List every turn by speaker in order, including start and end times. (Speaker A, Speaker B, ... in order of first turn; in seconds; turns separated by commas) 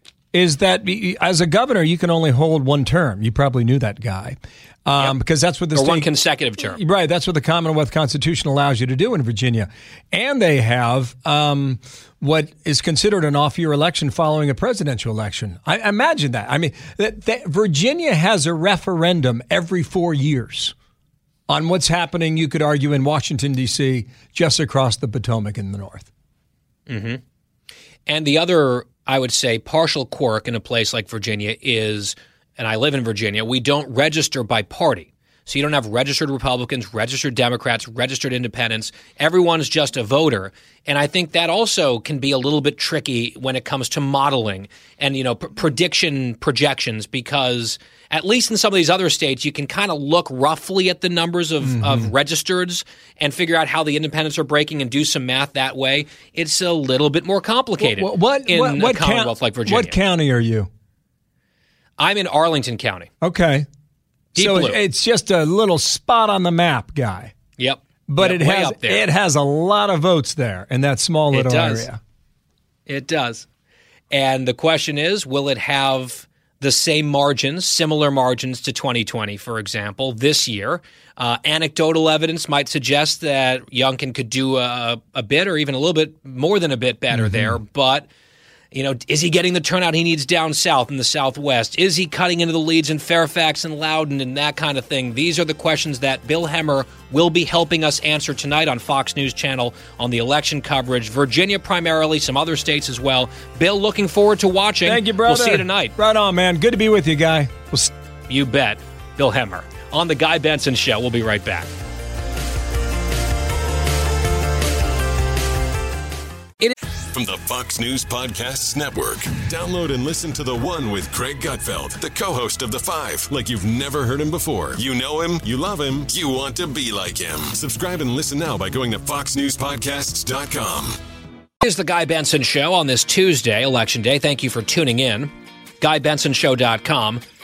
Speaker A: 0.3-20.7, Speaker B: 5.7-6.8, Speaker A: 21.5-26.1, Speaker B: 26.9-27.2, Speaker B: 28.1-60.0, Speaker A: 51.6-52.1, Speaker A: 57.8-60.7, Speaker B: 62.0-63.1, Speaker A: 63.2-63.7, Speaker B: 64.3-64.8, Speaker A: 64.3-67.3, Speaker B: 67.6-69.1, Speaker A: 68.1-72.0, Speaker B: 71.3-71.9, Speaker B: 72.9-73.5, Speaker B: 74.1-88.1, Speaker A: 87.1-87.6, Speaker B: 88.7-106.0, Speaker A: 104.8-107.9, Speaker B: 108.3-111.7, Speaker C: 117.1-131.0, Speaker B: 131.6-137.2